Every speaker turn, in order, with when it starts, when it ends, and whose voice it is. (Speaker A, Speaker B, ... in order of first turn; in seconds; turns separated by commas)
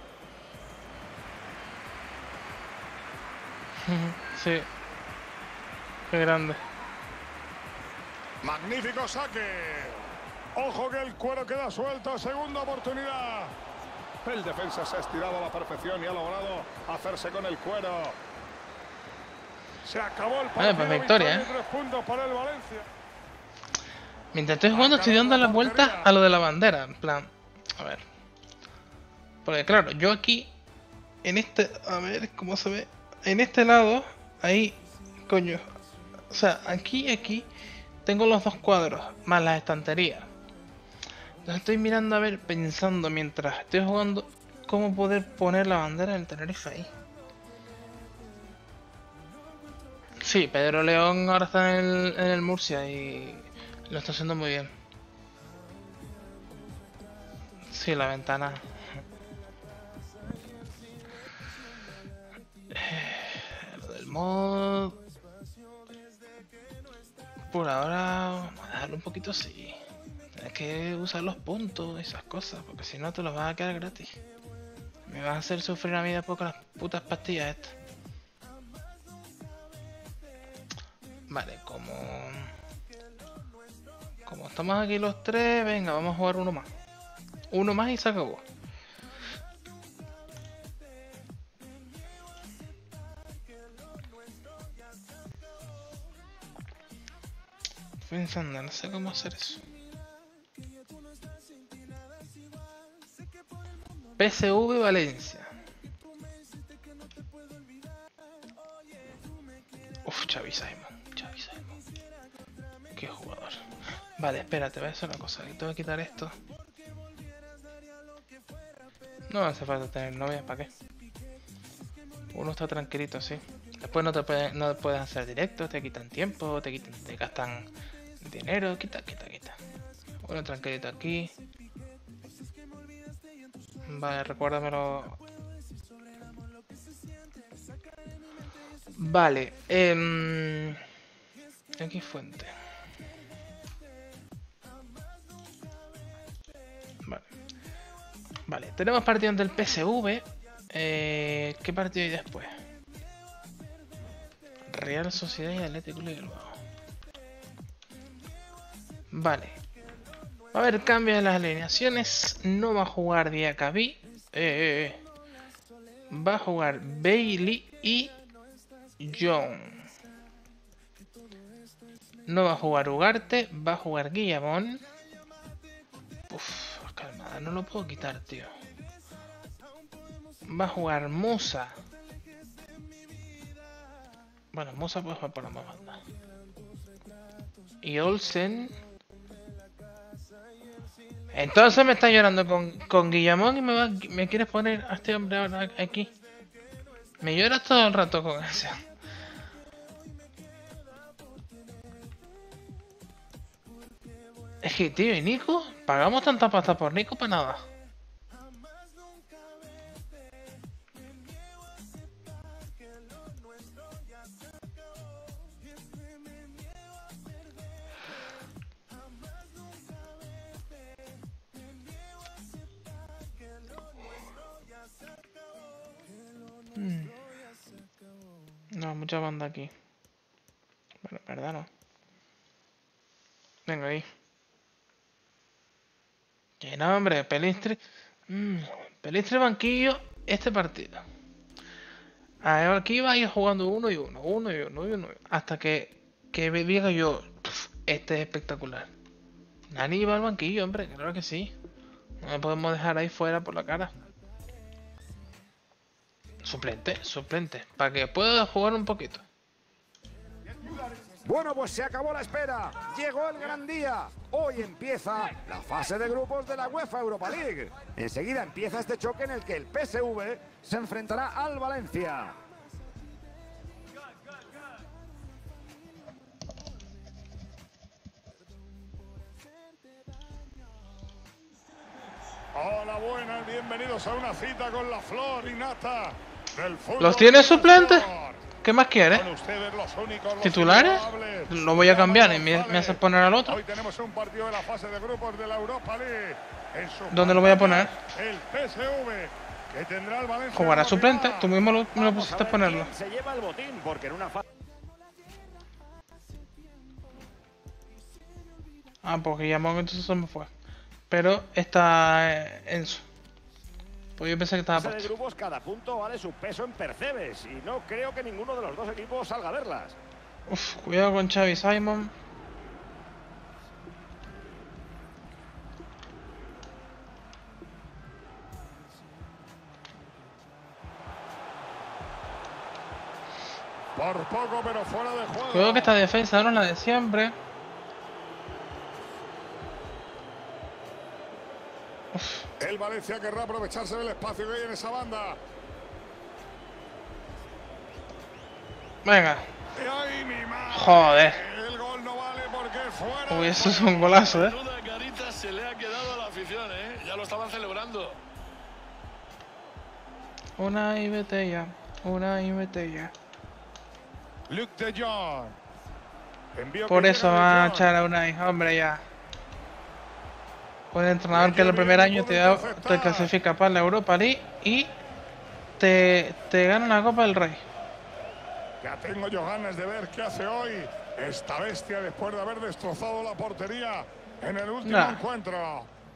Speaker A: 3.8-4.7, Speaker A: 6.1-6.6, Speaker B: 8.4-13.5, Speaker B: 14.2-18.2, Speaker B: 19.8-22.8, Speaker A: 20.6-21.5, Speaker A: 24.3-28.0, Speaker B: 24.7-26.1, Speaker A: 29.4-30.5, Speaker A: 31.2-35.6, Speaker A: 36.3-37.5, Speaker A: 38.0-40.3, Speaker A: 41.4-46.9, Speaker A: 50.2-54.7, Speaker A: 57.7-58.6, Speaker A: 62.7-65.0, Speaker A: 67.5-69.8, Speaker A: 70.3-74.2, Speaker A: 75.1-77.7, Speaker A: 81.3-82.5, Speaker A: 84.2-86.7, Speaker A: 87.5-88.4, Speaker A: 98.0-99.6, Speaker A: 104.2-105.5, Speaker A: 110.0-111.7, Speaker A: 113.0-113.7, Speaker A: 114.2-116.3, Speaker A: 119.3-120.7, Speaker A: 122.3-127.7, Speaker A: 128.2-129.6, Speaker A: 130.2-131.3, Speaker A: 133.9-135.2, Speaker A: 139.0-140.8, Speaker A: 141.8-142.5, Speaker A: 148.5-152.5, Speaker A: 154.7-156.6, Speaker A: 159.1-159.6, Speaker A: 160.5-165.0, Speaker A: 166.1-168.1, Speaker A: 169.0-169.8, Speaker A: 172.3-174.8, Speaker A: 176.3-178.5, Speaker A: 180.5-181.7, Speaker A: 184.5-186.0, Speaker A: 187.8-188.7, Speaker A: 191.3-196.1, Speaker A: 197.2-198.8, Speaker A: 204.6-207.6, Speaker A: 226.7-227.2, Speaker A: 228.7-229.7, Speaker A: 231.0-231.7, Speaker A: 233.7-234.1, Speaker A: 236.6-241.0, Speaker A: 242.4-248.9, Speaker A: 249.7-251.5, Speaker A: 252.2-253.9, Speaker A: 256.4-259.2, Speaker C: 261.1-272.4, Speaker B: 282.5-288.4, Speaker A: 287.0-288.1, Speaker A: 288.6-289.3, Speaker B: 289.1-301.6, Speaker A: 290.4-293.6, Speaker A: 297.1-297.9, Speaker A: 300.5-302.9, Speaker C: 301.9-304.4, Speaker A: 309.0-310.5, Speaker A: 311.1-313.0, Speaker A: 314.2-315.1, Speaker C: 314.7-319.9, Speaker A: 320.5-322.1, Speaker B: 333.9-335.9, Speaker A: 335.5-337.3, Speaker A: 342.1-342.5, Speaker B: 342.6-345.4, Speaker A: 349.0-349.5, Speaker B: 349.7-354.1, Speaker A: 350.7-351.4, Speaker A: 353.3-354.6, Speaker D: 354.0-358.2, Speaker A: 360.6-363.1, Speaker B: 364.5-365.6, Speaker B: 366.5-367.9, Speaker A: 366.9-369.0, Speaker A: 370.9-374.9, Speaker B: 371.3-373.3, Speaker A: 375.8-377.6, Speaker B: 378.8-385.9, Speaker A: 384.8-385.2